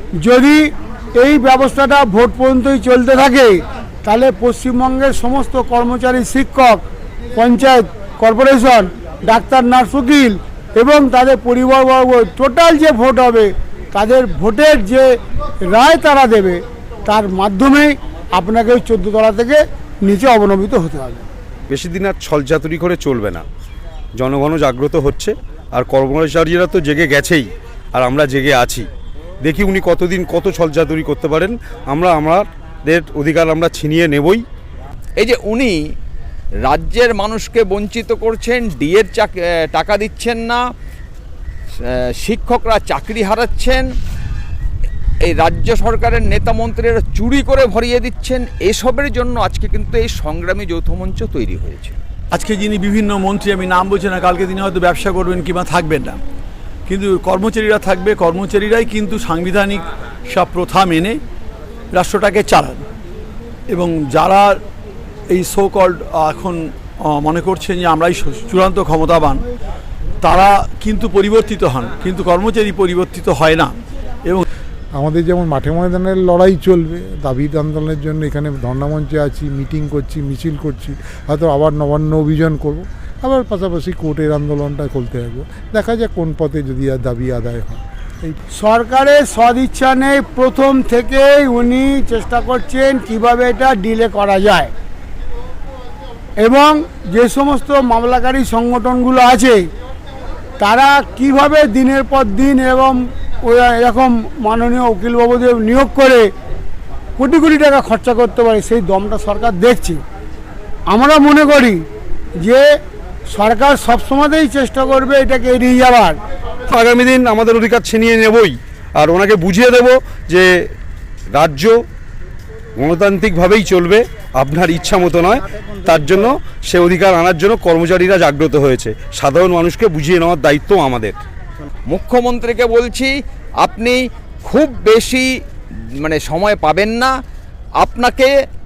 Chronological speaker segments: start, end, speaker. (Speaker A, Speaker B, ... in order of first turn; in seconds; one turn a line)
Speaker A: 0.2-6.8
Speaker A: 7.3-15.1
Speaker A: 15.6-21.3
Speaker B: 21.7-23.4
Speaker B: 24.1-28.9
Speaker B: 29.4-34.4
Speaker C: 35.2-35.8
Speaker C: 36.6-40.6
Speaker C: 41.8-43.9
Speaker C: 45.2-52.0
Speaker D: 52.3-56.2
Speaker D: 56.9-61.2
Speaker D: 61.9-62.8
Speaker D: 63.7-64.6
Speaker D: 65.3-69.4
Speaker D: 70.2-74.4
Speaker E: 75.0-88.4
Speaker A: 88.5-94.7
Speaker A: 96.4-99.7
Speaker A: 100.6-106.3
Speaker A: 107.2-110.0
Speaker A: 110.9-111.8
Speaker A: 112.4-112.7
Speaker A: 113.3-116.2
Speaker B: 116.7-120.7
Speaker B: 121.3-121.8
Speaker B: 122.8-131.2
Speaker C: 131.9-137.1
Speaker C: 137.8-138.3